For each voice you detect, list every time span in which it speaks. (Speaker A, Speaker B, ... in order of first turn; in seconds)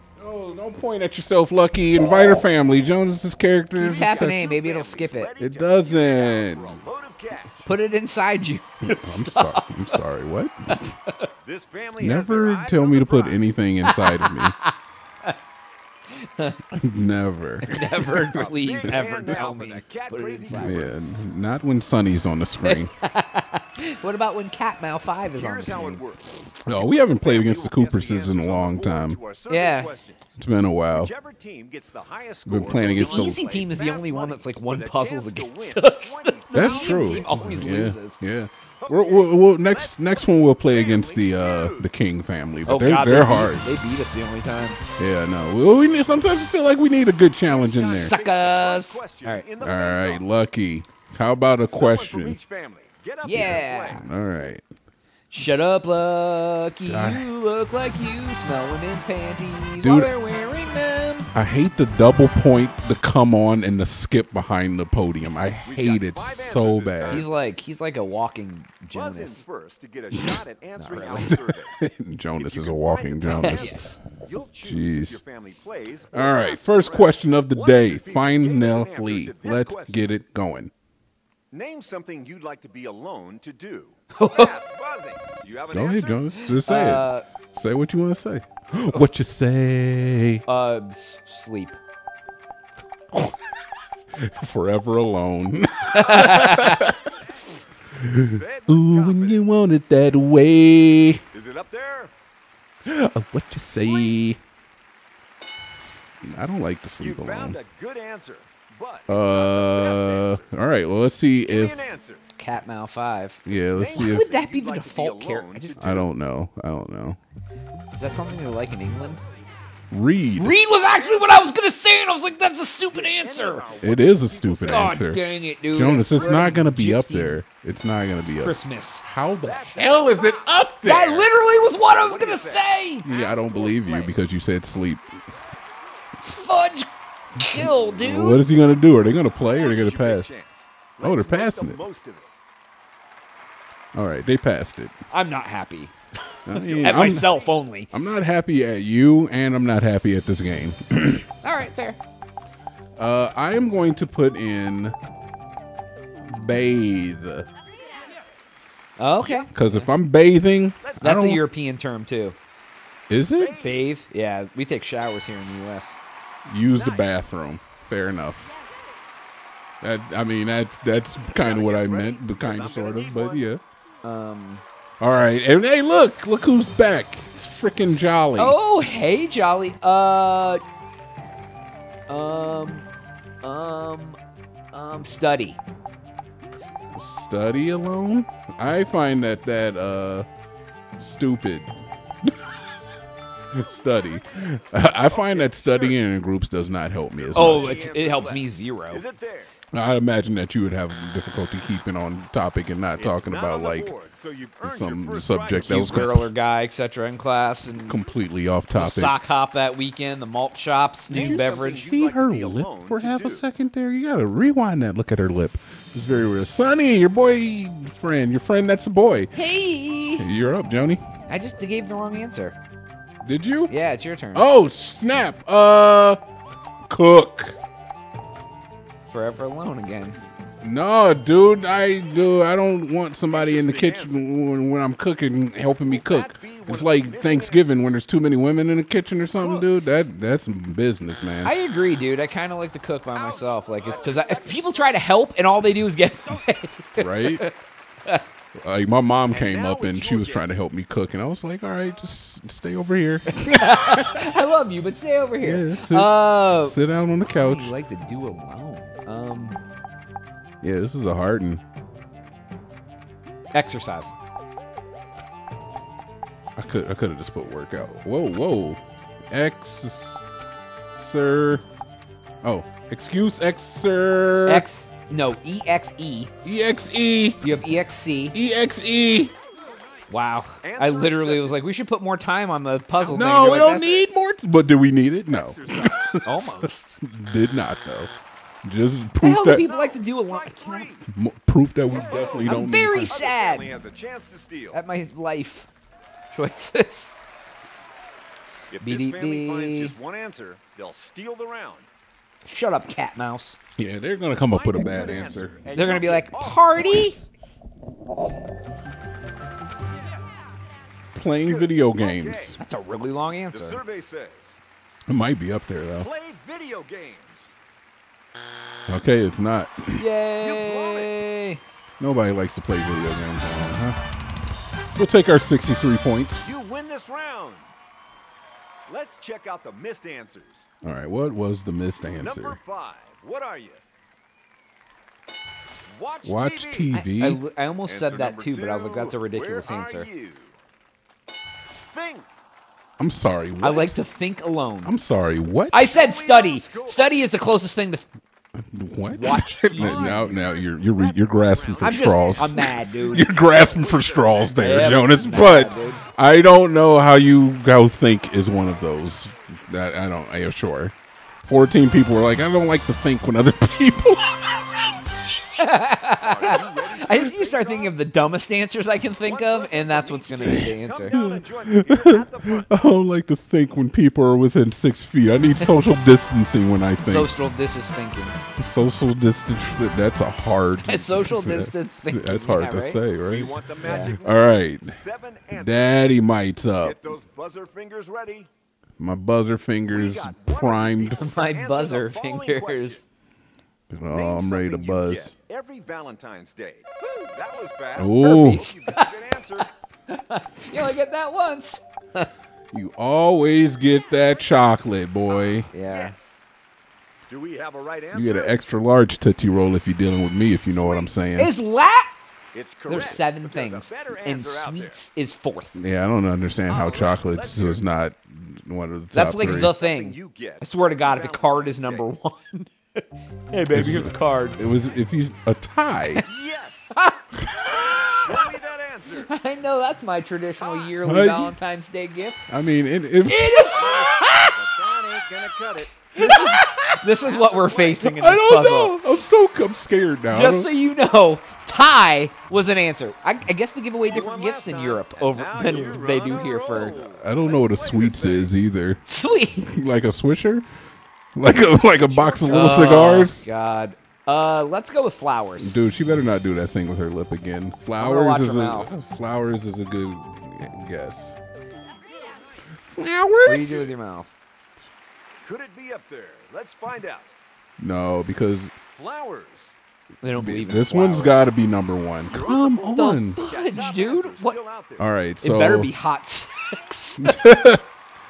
Speaker A: 0.2-4.5, 5.4-6.8, 8.8-10.9, 12.0-14.6, 16.7-19.1, 20.6-22.9, 26.6-29.2, 30.4-31.1, 32.5-33.4, 36.5-43.7, 45.0-48.1, 49.6-52.4, 53.3-54.6, 56.9-57.3, 59.8-60.1, 61.3-67.3, 70.1-70.4, 71.1-73.9, 74.6-75.2, 76.1-80.7, 85.7-90.4, 93.1-93.4, 94.2-97.1, 97.9-101.2, 102.8-104.4, 106.2-107.6, 109.1-111.8, 113.5-114.3, 115.8-117.2, 119.9-120.6, 123.8-131.3, 133.1-135.1, 137.5-140.3, 141.0-141.8, 143.9-144.9, 146.5-147.4, 147.9-151.3, 153.0-155.0, 156.2-157.5, 159.5-161.4, 163.1-163.6, 166.5-168.5, 169.8-173.6, 175.0-178.6, 186.9-190.3, 191.0-191.7, 193.5-197.8, 199.7-203.9, 204.6-206.3, 207.8-209.2, 211.1-219.3, 220.2-221.0, 223.2-223.7, 224.3-226.2, 226.9-227.6, 230.6-241.5, 247.0-247.4, 248.6-254.2, 255.4-257.7, 260.6-261.6, 266.6-270.2, 271.0-271.6, 272.4-274.7, 276.4-277.5, 278.3-279.3, 283.0-288.1, 288.6-289.6, 291.1-293.2, 303.8-305.6, 311.1-312.6, 315.1-316.1, 318.9-320.1, 322.0-324.0, 325.0-326.6, 330.8-332.6, 336.2-337.4, 343.0-344.0, 344.9-345.9, 348.6-360.9, 361.4-365.1, 370.4-377.3, 378.6-385.0, 385.5-387.0, 389.0-391.2, 393.9-395.3, 398.0-398.7, 402.7-405.7, 408.1-411.5, 415.8-419.8, 423.7-426.3, 431.1-431.6, 432.5-434.0, 436.2-437.0, 438.0-440.7, 445.7-446.0, 447.0-449.0, 449.6-450.7, 451.4-453.4, 455.6-461.4, 462.9-463.9, 467.8-468.7, 470.4-473.4, 475.0-475.9, 477.2-477.8
Speaker B: 3.8-5.3, 7.7-10.0, 10.7-11.3, 13.8-15.4, 16.1-16.6, 17.6-20.9, 22.6-26.0, 29.5-29.9, 33.0-38.2, 42.7-44.8, 48.0-49.5, 53.2-54.1, 55.3-61.3, 67.1-69.4, 70.8-71.3, 73.4-74.0, 84.1-84.5, 86.6-87.2, 90.5-91.8, 95.9-96.9, 112.4-115.8, 117.9-119.2, 120.4-123.7, 124.5-127.4, 128.4-129.1, 130.8-133.1, 136.2-138.4, 145.1-145.9, 146.7-147.9, 151.4-152.0, 159.0-159.9, 161.0-162.4, 163.6-166.0, 174.0-174.6, 178.4-180.6, 182.1-182.9, 183.4-184.2, 184.7-185.6, 197.3-199.0, 205.6-208.1, 208.8-211.8, 219.3-220.3, 221.3-222.6, 223.7-224.5, 229.1-230.2, 241.4-248.2, 253.3-259.6, 263.5-264.2, 274.5-276.3, 277.4-278.4, 280.1-284.0, 286.2-287.0, 289.2-290.9, 292.4-293.7, 294.7-295.7, 296.3-297.1, 298.8-299.9, 302.4-303.6, 305.7-307.2, 312.6-313.8, 320.0-321.6, 336.9-340.1, 343.6-344.9, 345.7-348.1, 349.1-350.2, 351.8-353.4, 354.6-356.0, 365.6-371.2, 377.0-378.4, 380.8-383.0, 383.8-384.2, 391.2-393.0, 398.2-402.3, 405.7-406.1, 411.4-412.1, 412.9-415.8, 419.1-424.6, 426.9-428.2, 429.2-432.4, 433.3-434.6, 436.2-439.0, 440.3-447.0, 449.1-449.7, 452.5-455.8, 458.0-458.9, 463.5-464.3, 470.2-471.4, 472.8-474.6, 475.4-477.5
Speaker C: 3.9-7.6, 11.4-13.4, 18.3-21.1, 25.4-30.4, 30.9-37.6, 38.8-41.9, 47.5-50.2, 51.7-54.1, 65.7-67.3, 68.9-71.8, 72.4-80.0, 81.5-86.4, 98.1-99.4, 101.3-102.1, 107.0-110.5, 111.5-112.2, 113.8-116.1, 120.9-121.5, 122.9-125.0, 129.4-130.5, 131.8-134.2, 139.5-142.3, 146.8-147.5, 160.8-161.2, 163.4-163.9, 166.8-167.3, 171.4-173.4, 195.1-196.0, 197.3-199.5, 203.0-206.1, 211.1-213.4, 233.3-234.2, 235.9-238.0, 239.4-239.7, 243.1-245.0, 249.3-250.7, 280.6-281.6, 285.3-286.4, 289.5-291.1, 291.9-294.8, 298.7-301.9, 304.5-307.3, 311.4-312.6, 313.5-314.6, 316.0-317.6, 320.4-321.2, 326.4-327.7, 328.9-330.7, 332.2-333.8, 335.9-337.0, 337.9-340.6, 341.8-342.3, 345.8-347.3, 349.8-355.5, 366.1-368.0, 369.2-372.7, 383.2-386.1, 386.8-388.5, 389.9-393.0, 394.1-399.7, 405.4-406.4, 407.3-408.6, 410.7-411.4, 412.5-415.0, 416.7-417.8, 419.4-422.1, 426.2-426.9, 427.8-429.3, 430.6-431.0, 433.7-436.0, 437.2-438.0, 444.1-448.5, 451.9-453.3, 465.4-467.3, 468.8-469.8, 472.3-475.1